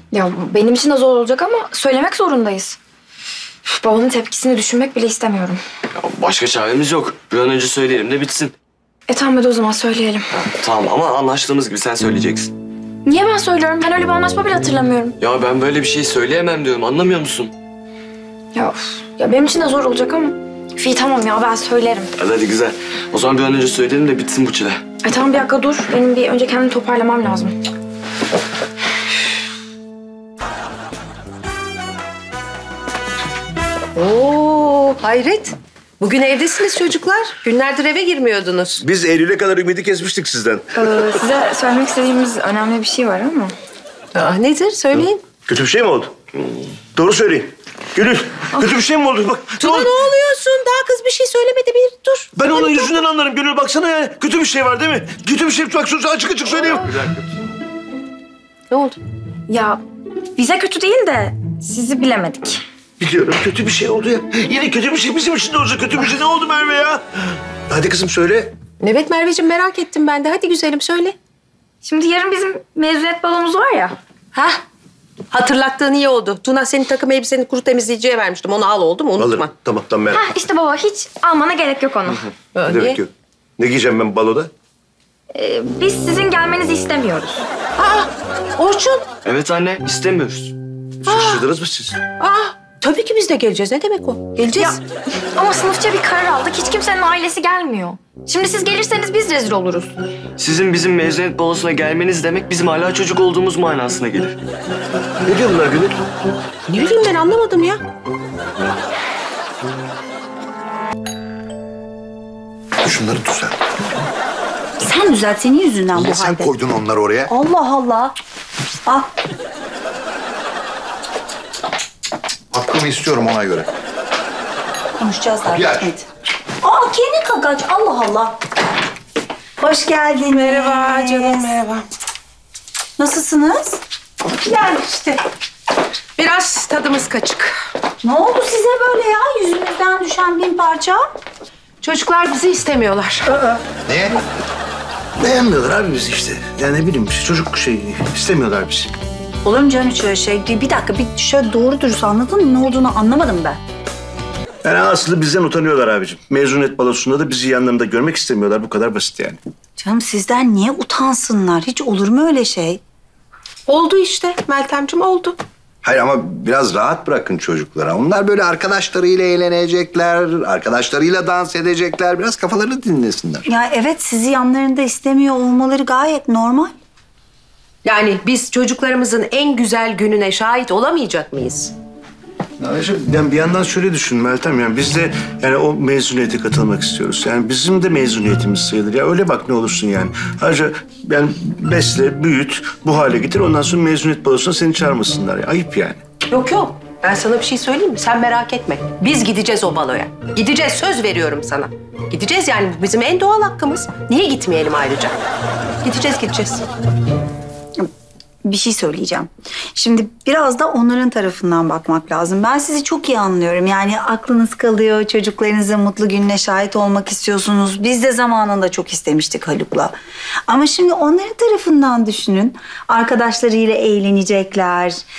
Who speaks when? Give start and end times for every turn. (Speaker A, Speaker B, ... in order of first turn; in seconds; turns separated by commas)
Speaker A: 0.1-2.8, Speaker A: 3.7-5.6, Speaker B: 6.0-8.5, Speaker A: 9.1-10.3, Speaker B: 10.6-12.5, Speaker A: 13.1-15.2, Speaker B: 15.2-17.5, Speaker A: 18.5-22.1, Speaker B: 22.2-24.8, Speaker A: 25.0-27.6, Speaker C: 34.0-38.8, Speaker D: 38.8-40.7, Speaker A: 40.8-43.5, Speaker C: 44.1-45.2, Speaker D: 45.4-46.1, Speaker D: 47.0-50.0, Speaker C: 49.6-52.3, Speaker D: 52.4-57.0, Speaker C: 58.7-59.0, Speaker A: 59.5-59.8, Speaker A: 60.4-62.6, Speaker D: 63.0-67.0, Speaker D: 67.7-68.5, Speaker C: 68.8-71.2, Speaker A: 71.8-74.0, Speaker C: 74.3-74.6, Speaker C: 75.3-79.5, Speaker D: 79.2-80.3, Speaker A: 80.1-82.3, Speaker C: 82.6-82.9, Speaker D: 82.6-84.5, Speaker A: 85.3-87.4, Speaker C: 87.8-89.1, Speaker B: 89.2-90.5, Speaker D: 91.0-92.0, Speaker C: 92.2-94.8, Speaker A: 95.3-99.9, Speaker B: 100.4-104.4, Speaker D: 105.2-106.0, Speaker C: 106.7-107.8, Speaker E: 112.8-113.5, Speaker F: 114.8-116.5, Speaker E: 115.9-117.3, Speaker F: 117.3-118.1, Speaker E: 122.5-123.7, Speaker F: 125.0-126.1, Speaker E: 125.5-125.9, Speaker F: 126.6-128.3, Speaker F: 129.6-131.5, Speaker C: 130.3-131.9, Speaker F: 133.0-133.8, Speaker F: 134.8-135.1, Speaker C: 136.2-137.6, Speaker F: 138.0-141.0, Speaker C: 141.8-143.3, Speaker E: 143.9-144.2, Speaker D: 145.2-148.9, Speaker F: 149.4-153.6, Speaker D: 154.6-159.4, Speaker F: 159.8-162.8, Speaker C: 163.7-165.4, Speaker E: 165.8-173.5, Speaker F: 173.5-176.7, Speaker C: 177.8-181.8, Speaker D: 182.6-196.0, Speaker C: 196.3-205.2, Speaker C: 205.8-206.7, Speaker F: 208.4-219.9, Speaker F: 220.5-225.0